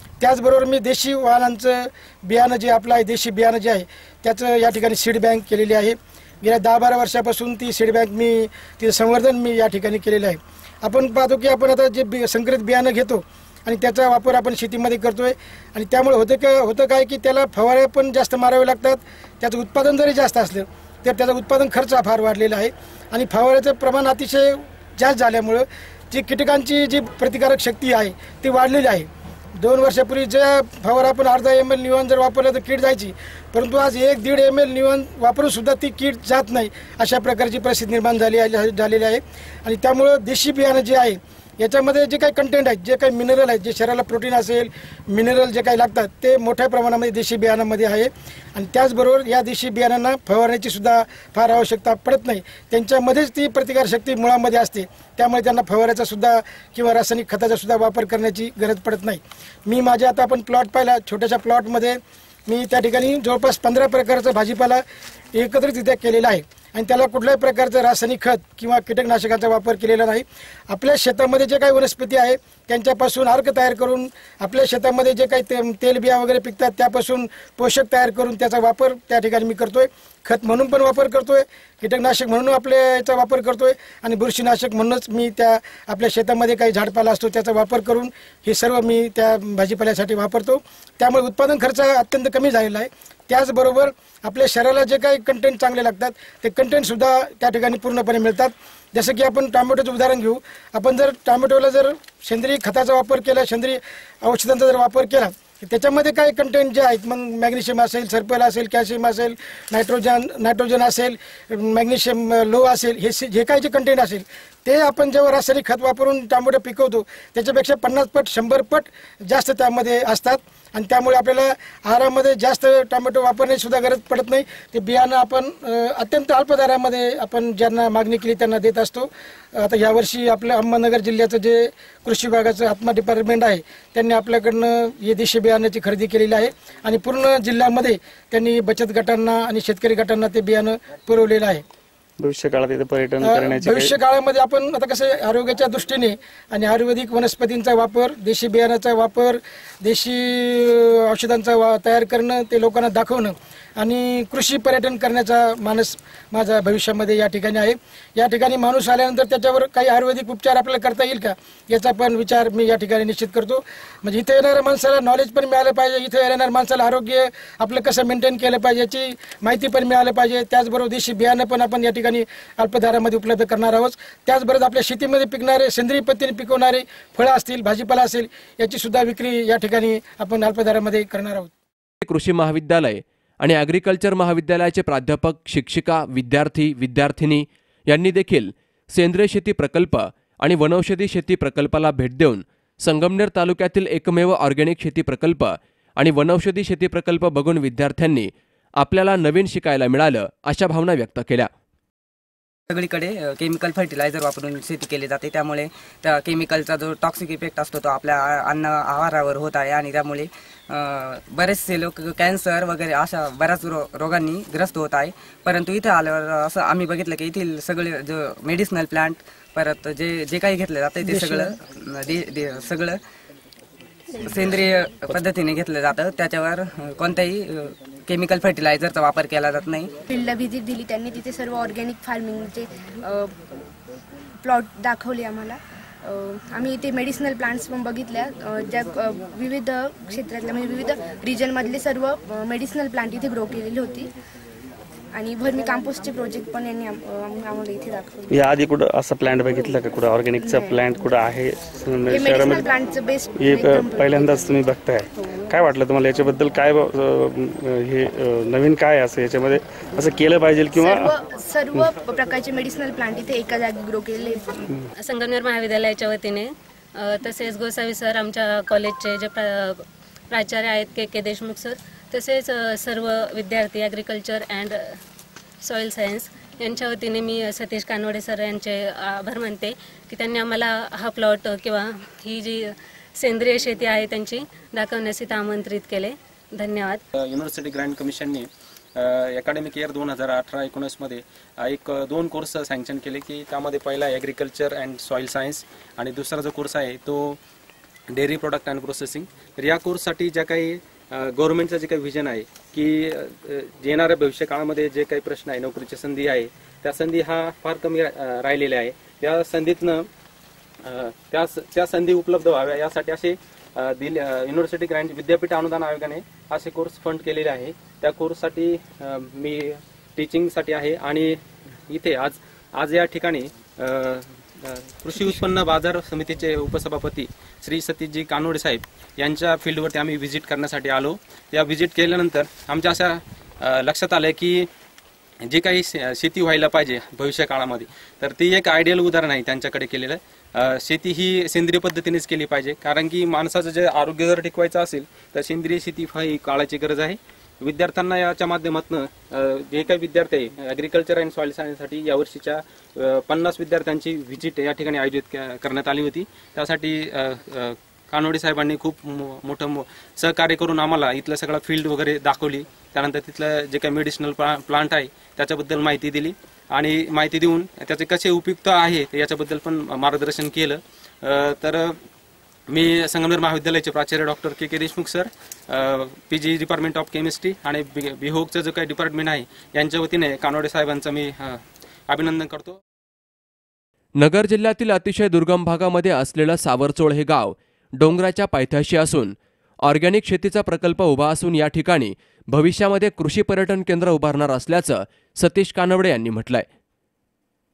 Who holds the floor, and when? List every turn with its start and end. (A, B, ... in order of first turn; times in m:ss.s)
0:00.2-1:04.8 A
1:05.3-2:21.6 A
2:22.2-2:23.9 B
2:23.2-3:01.5 A
3:02.0-3:21.5 C
3:22.7-3:43.0 D
3:41.0-3:41.6 A
3:44.2-3:49.9 D
3:50.1-3:53.3 E
3:54.4-4:04.1 E
4:05.1-4:08.4 E
4:08.3-4:12.7 B
4:10.4-4:10.8 E
4:12.1-4:14.5 E
4:13.4-4:21.1 B
4:20.7-4:24.6 E
4:25.0-4:34.8 F
4:35.6-4:42.7 F
4:43.2-4:47.0 F
4:47.2-4:57.4 G
4:58.1-5:10.1 G
5:10.8-5:21.4 G
5:21.9-5:34.7 G
5:35.4-6:11.9 G
6:12.7-6:22.8 G
6:24.2-6:29.4 C
6:29.9-6:36.7 C